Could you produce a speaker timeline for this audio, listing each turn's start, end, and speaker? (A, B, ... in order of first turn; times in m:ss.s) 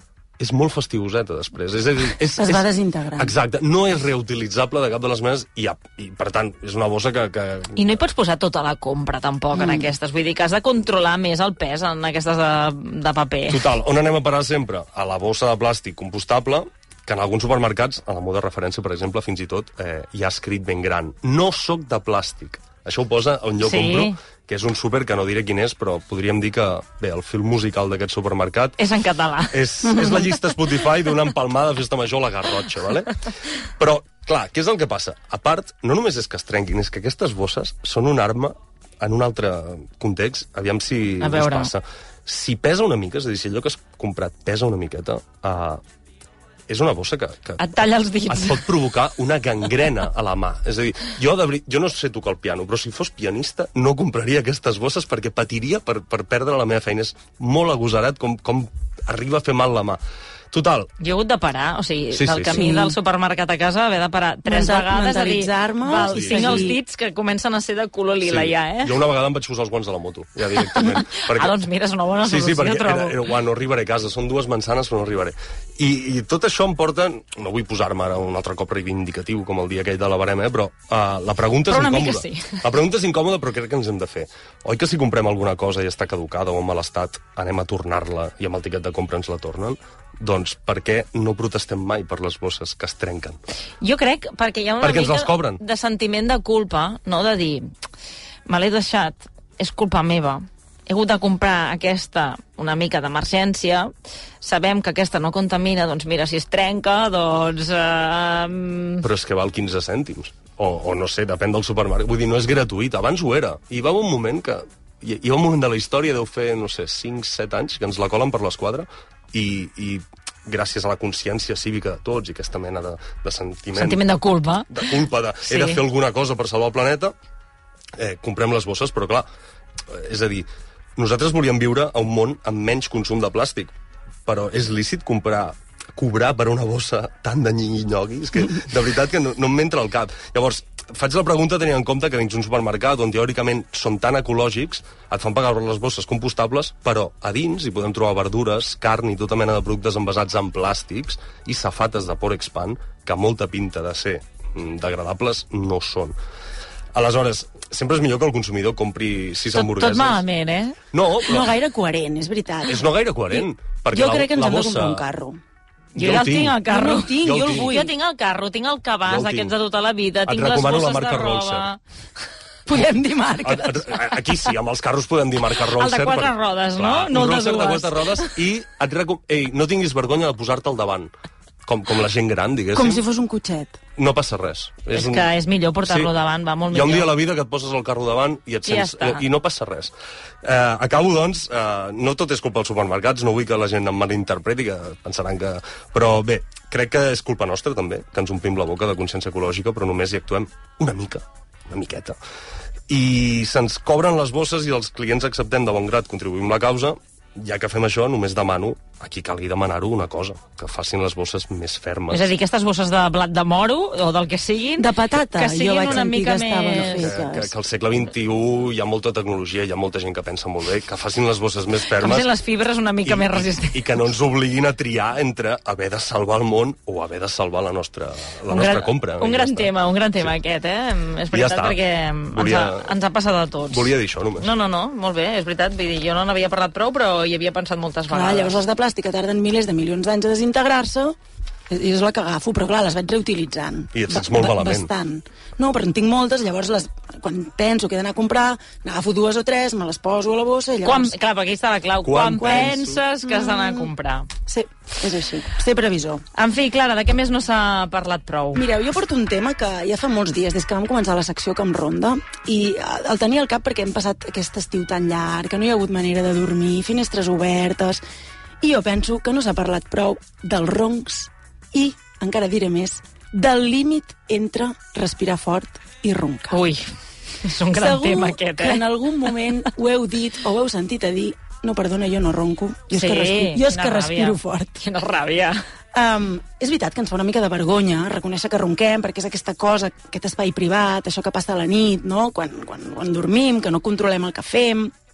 0:00.4-0:02.6 A
0:02.3-0:03.3 B
0:03.2-0:07.9 A
0:07.7-0:13.6 C
0:09.5-0:09.9 B
0:13.5-0:28.8 A
0:23.6-0:24.2 C
0:28.8-0:30.4 C
0:29.5-0:33.2 A
0:33.8-0:45.8 A
0:41.2-0:41.7 C
0:46.7-0:47.6 A
0:47.6-0:48.7 C
0:48.3-1:00.0 A
1:00.5-1:00.9 A
1:01.0-1:09.0 C
1:02.1-1:02.6 A
1:02.5-1:03.0 B
1:04.4-1:06.8 B
1:05.9-1:06.7 A
1:08.2-1:11.6 A
1:10.6-1:13.2 C
1:12.2-1:33.4 A
1:21.7-1:22.7 C
1:33.8-1:37.7 C
1:34.8-1:35.6 A
1:38.4-1:49.1 C
1:49.0-2:04.0 A
2:03.7-2:04.9 C
2:04.7-2:07.1 A
2:05.4-2:05.8 C
2:08.0-2:09.2 A
2:09.9-2:13.7 A
2:14.2-2:36.1 A
2:36.9-2:40.2 A
2:39.5-2:40.8 C
2:40.9-2:41.5 A
2:41.2-2:45.4 B
2:42.6-2:45.0 A
2:45.9-2:46.6 A
2:45.9-2:51.8 C
2:46.6-2:47.9 B
2:47.2-2:47.7 A
2:49.0-2:49.5 A
2:50.2-2:51.7 A
2:52.6-2:53.9 B
2:53.4-3:01.1 A
2:55.7-2:58.4 C
3:01.6-3:03.0 A
3:02.7-3:03.8 B
3:04.0-3:05.3 A
3:04.9-3:07.1 C
3:05.8-3:06.1 A
3:06.7-3:22.2 A
3:08.6-3:09.2 C
3:22.9-3:32.3 A
3:32.1-3:37.2 C
3:34.8-3:37.5 B
3:37.0-3:42.3 A
3:41.9-3:43.9 C
3:43.0-3:50.3 A
3:48.5-3:58.6 C
3:51.3-3:51.8 A
3:52.3-3:52.9 A
3:53.7-3:54.5 A
3:58.1-4:01.2 B
4:01.7-4:11.1 B
4:03.9-4:04.9 A
4:10.8-4:14.3 C
4:12.0-4:13.0 A
4:12.4-4:13.9 B
4:14.4-4:16.2 B
4:16.3-4:18.6 C
4:18.5-4:28.0 B
4:28.6-4:36.6 B
4:36.5-4:36.8 C
4:37.4-4:38.9 C
4:37.7-4:44.8 B
4:42.9-4:45.6 C
4:45.9-4:54.9 B